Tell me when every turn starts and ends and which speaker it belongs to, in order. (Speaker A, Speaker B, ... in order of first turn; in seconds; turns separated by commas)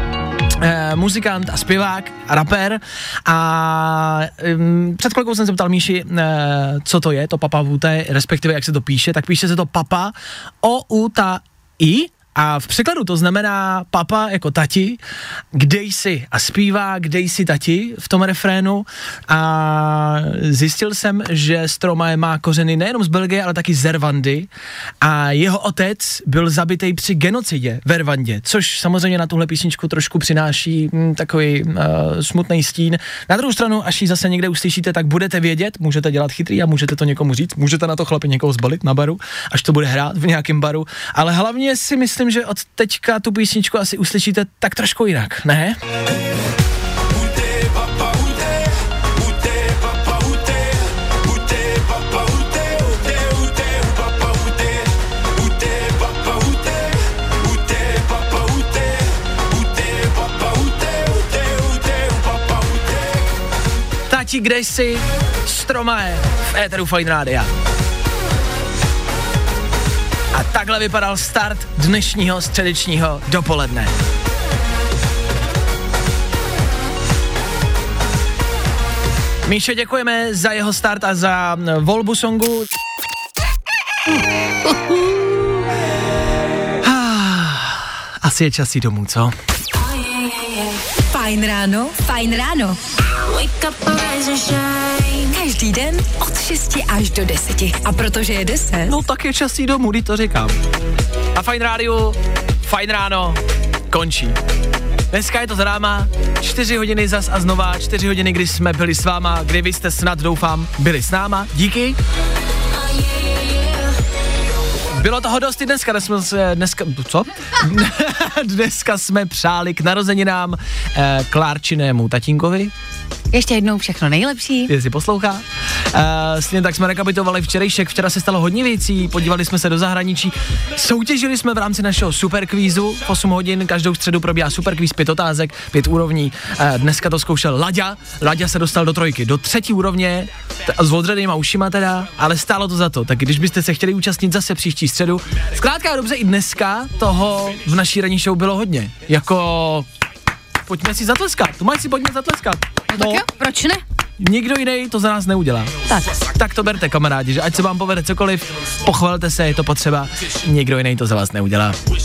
Speaker A: 0.5-15.0, Speaker A: 15.5-24.5, Speaker A: 25.0-45.8, Speaker A: 64.1-67.5, Speaker A: 70.3-74.0, Speaker A: 79.5-82.7, Speaker A: 86.8-89.3, Speaker B: 90.2-99.0, Speaker A: 98.9-100.5, Speaker A: 101.3-104.4, Speaker A: 105.1-112.0, Speaker A: 114.9-122.7, Speaker C: 123.3-124.7, Speaker A: 124.7-149.9, Speaker A: 150.7-153.2, Speaker C: 152.9-153.8, Speaker A: 154.2-161.8, Speaker C: 155.9-156.2